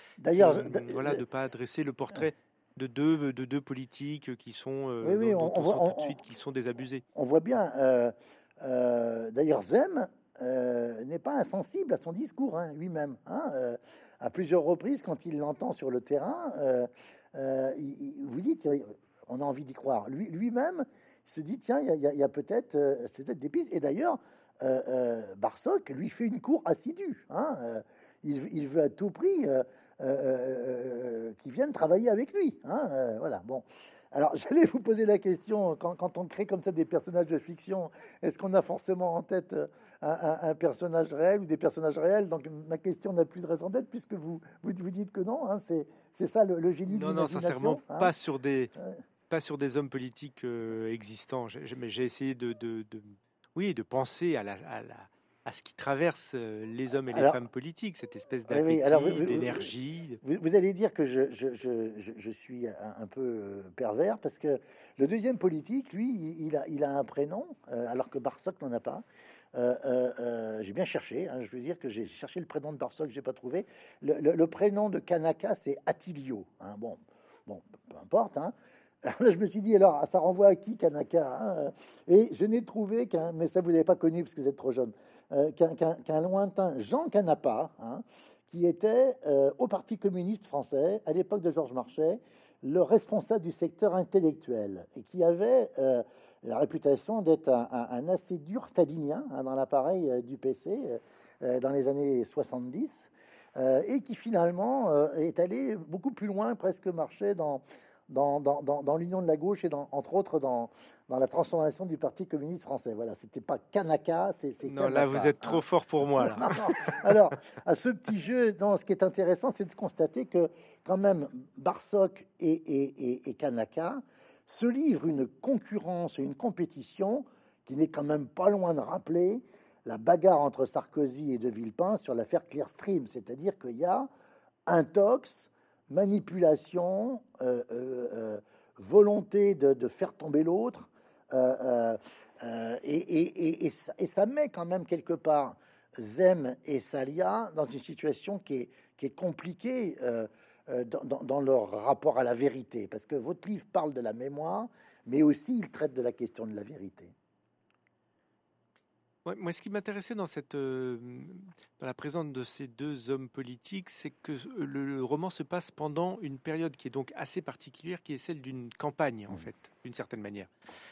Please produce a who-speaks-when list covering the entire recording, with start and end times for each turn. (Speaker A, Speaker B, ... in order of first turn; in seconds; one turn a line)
Speaker A: 0.2-1.2
Speaker B: 0.3-7.0
Speaker A: 5.0-6.2
Speaker A: 7.1-48.1
Speaker B: 46.9-48.7
Speaker B: 49.3-60.2
Speaker A: 57.1-57.4
Speaker A: 58.5-59.7
Speaker A: 60.2-134.1
Speaker B: 114.6-117.2
Speaker A: 134.7-157.1
Speaker B: 159.2-170.5